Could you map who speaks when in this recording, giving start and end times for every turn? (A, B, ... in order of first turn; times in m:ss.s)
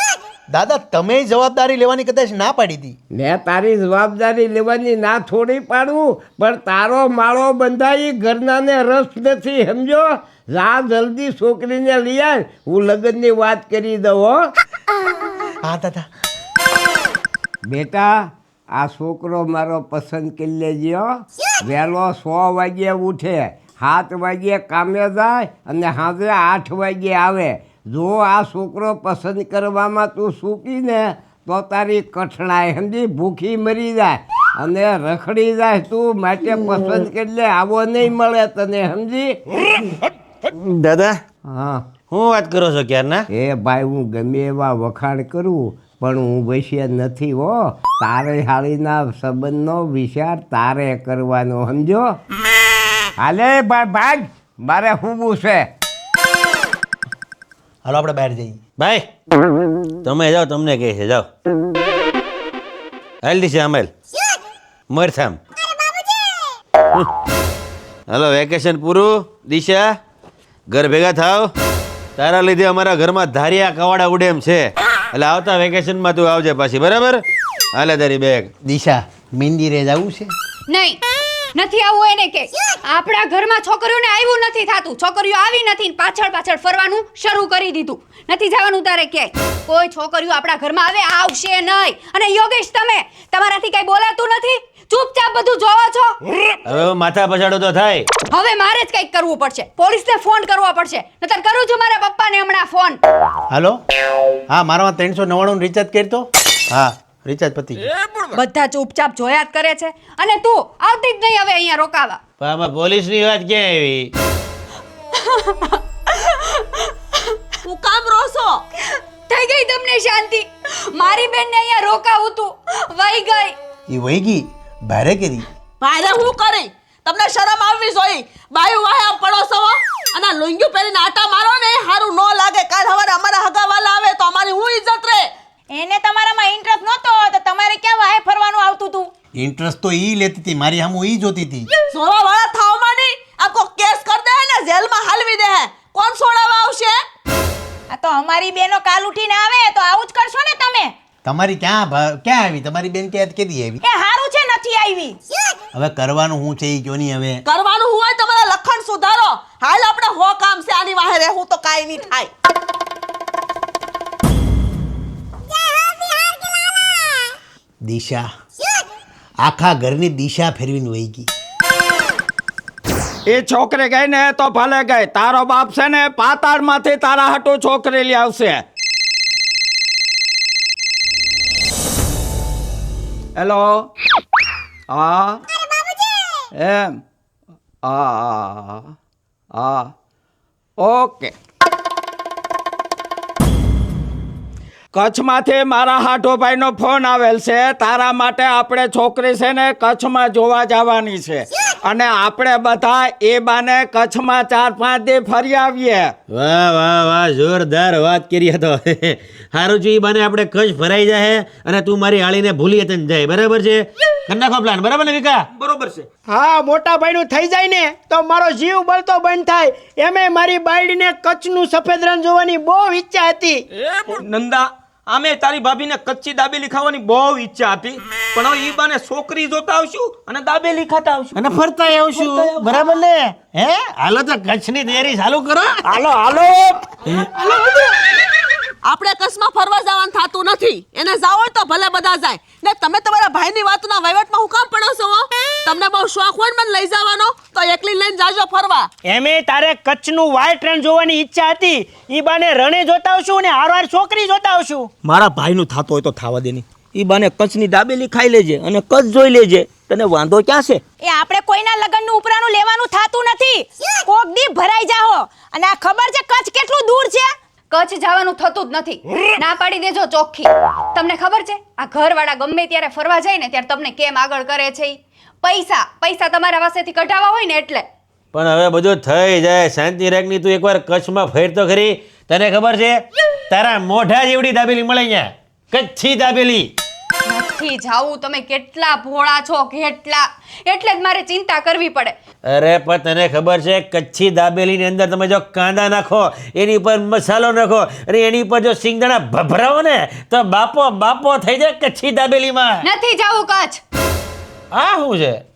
0:00.5-0:03.0 A
0:03.1-0:14.4 B
0:15.6-0:16.1 A
0:17.7-0:18.2 B
0:18.7-0:21.1 B
0:21.6-0:39.3 B
0:40.5-0:41.2 C
0:41.5-0:41.8 B
0:42.1-0:43.3 C
0:43.3-0:52.0 B
0:53.2-0:55.6 B
0:57.8-0:58.6 A
0:58.8-0:59.1 C
1:00.0-1:01.3 C
1:03.2-1:03.9 C
1:04.9-1:05.4 C
1:08.1-1:09.8 C
1:10.7-1:11.5 C
1:12.2-1:18.5 C
1:18.6-1:20.3 A
1:20.7-1:21.0 D
1:21.6-1:36.2 D
1:36.7-1:38.1 C
1:38.3-1:43.0 D
1:44.5-1:47.8 A
1:48.3-1:52.2 D
1:52.4-1:54.1 C
1:55.2-1:57.4 D
1:57.6-1:58.6 E
1:59.3-2:03.6 D
2:03.9-2:05.4 A
2:05.8-2:15.3 E
2:15.7-2:19.1 F
2:19.4-2:21.7 A
2:21.9-2:27.0 E
2:27.9-2:30.9 F
2:31.2-2:33.8 A
2:33.8-2:35.2 F
2:35.7-2:37.4 A
2:37.4-2:42.3 E
2:47.9-2:48.2 A
2:49.4-2:51.3 A
2:53.3-2:58.6 G
3:03.4-3:03.9 G
3:04.9-3:05.4 G
3:06.6-3:07.0 G
3:07.8-3:08.9 G
3:09.6-3:09.9 G
3:10.8-3:11.3 G
3:14.9-3:26.1 G
3:26.3-3:35.4 C
3:35.6-3:36.1 H
3:36.3-3:43.6 I
3:44.1-3:51.4 H
3:51.4-3:55.8 C
3:52.2-3:52.8 H
3:55.9-3:56.8 H
3:57.5-3:57.8 H
3:58.8-4:08.9 E
4:09.0-4:14.9 I
4:15.0-4:20.8 H
4:21.0-4:27.3 F
4:27.7-4:37.9 D
4:38.3-4:46.7 C
4:47.2-4:52.2 D
4:52.5-5:02.9 C
5:02.8-5:03.8 D
5:04.7-5:05.4 C